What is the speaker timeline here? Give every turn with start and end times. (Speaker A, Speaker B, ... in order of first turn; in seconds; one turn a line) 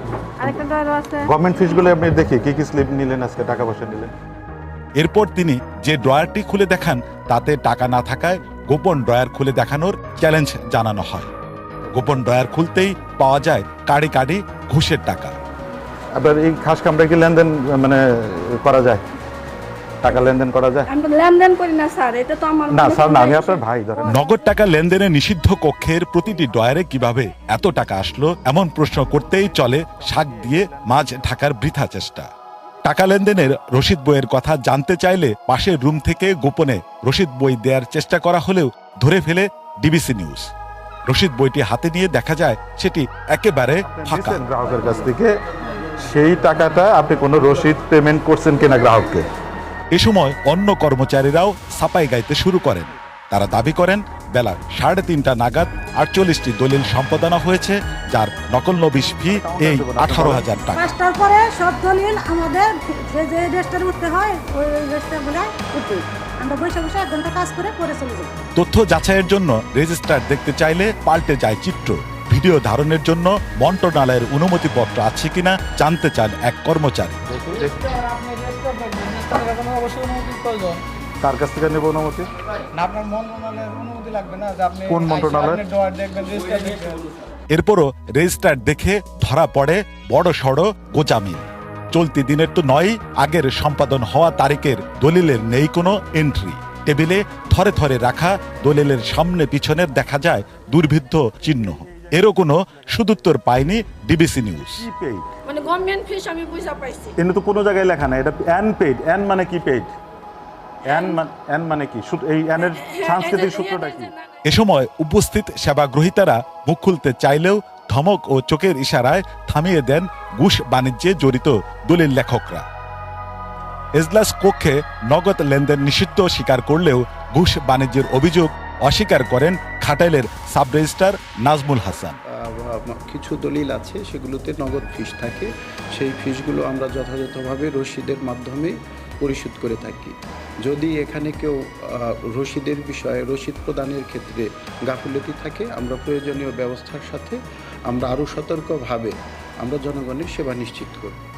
Speaker A: 0.4-0.9
Speaker B: 0.5-1.3
Speaker C: 1.2-4.1
Speaker D: 5.0-11.3
Speaker D: 11.9-15.3
Speaker C: 16.1-19.0
Speaker C: 20.0-20.9
Speaker B: 20.9-23.6
Speaker C: 22.7-24.2
Speaker D: 24.0-32.3
Speaker C: 29.8-31.1
Speaker D: 32.8-40.5
Speaker D: 41.1-44.4
Speaker C: 43.8-45.4
Speaker C: 46.0-49.2
Speaker D: 49.9-60.9
Speaker C: 59.2-60.5
Speaker E: 60.7-68.3
Speaker D: 68.5-77.2
Speaker C: 77.3-77.9
Speaker F: 78.0-80.8
Speaker C: 81.2-82.3
Speaker F: 82.8-84.8
Speaker C: 84.8-85.8
Speaker F: 85.7-87.0
Speaker D: 87.5-104.8
Speaker C: 104.8-105.3
Speaker B: 105.4-107.1
Speaker C: 107.2-109.9
Speaker C: 110.8-114.1
Speaker B: 112.7-114.3
Speaker D: 114.4-122.6
Speaker D: 124.0-132.2
Speaker A: 132.4-147.4
Speaker A: 147.9-151.2